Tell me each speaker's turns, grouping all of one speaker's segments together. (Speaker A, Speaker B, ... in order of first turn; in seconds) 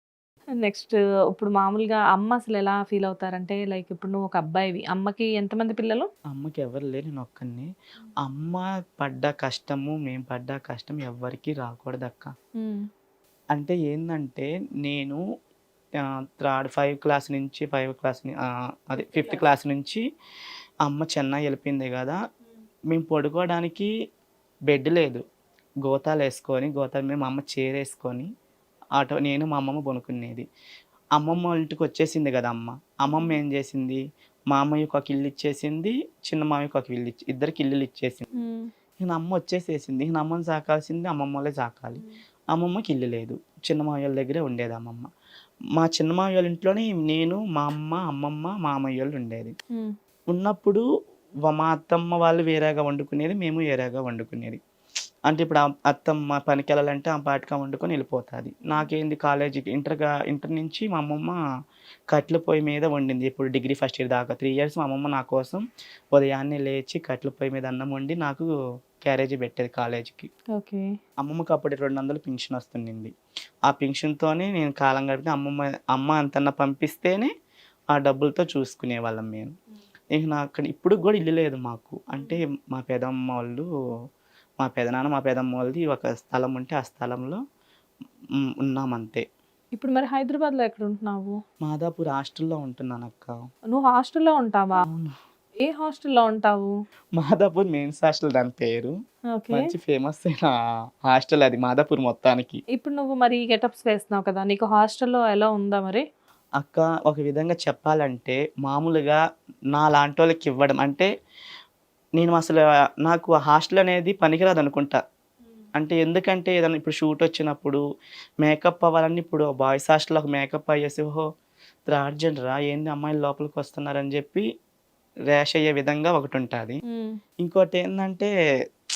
Speaker A: 0.6-6.1, 33.1-33.4, 38.4-38.7, 70.6-70.9, 89.8-91.3, 93.7-94.8, 95.6-96.7, 99.3-99.7, 102.7-106.0, 126.9-127.2
Speaker B: 6.3-7.7, 8.2-12.3, 13.5-15.2, 16.1-20.0, 20.9-22.2, 22.9-23.9, 24.7-25.2, 25.8-28.3, 29.0-30.5, 31.2-34.0, 34.5-38.2, 39.0-42.0, 42.5-45.1, 45.8-49.5, 50.3-50.8, 51.5-54.6, 55.3-61.4, 62.1-65.6, 66.1-68.5, 69.0-70.3, 71.2-73.1, 73.7-77.3, 77.9-79.5, 80.1-83.7, 84.6-87.4, 88.5-89.2, 91.6-93.3, 94.8-95.1, 97.2-98.9, 99.5-100.5, 101.1-102.6, 106.6-109.2, 109.7-111.1, 112.2-115.0, 115.8-117.8, 118.4-121.2, 121.9-124.5, 125.3-126.8, 127.4-128.3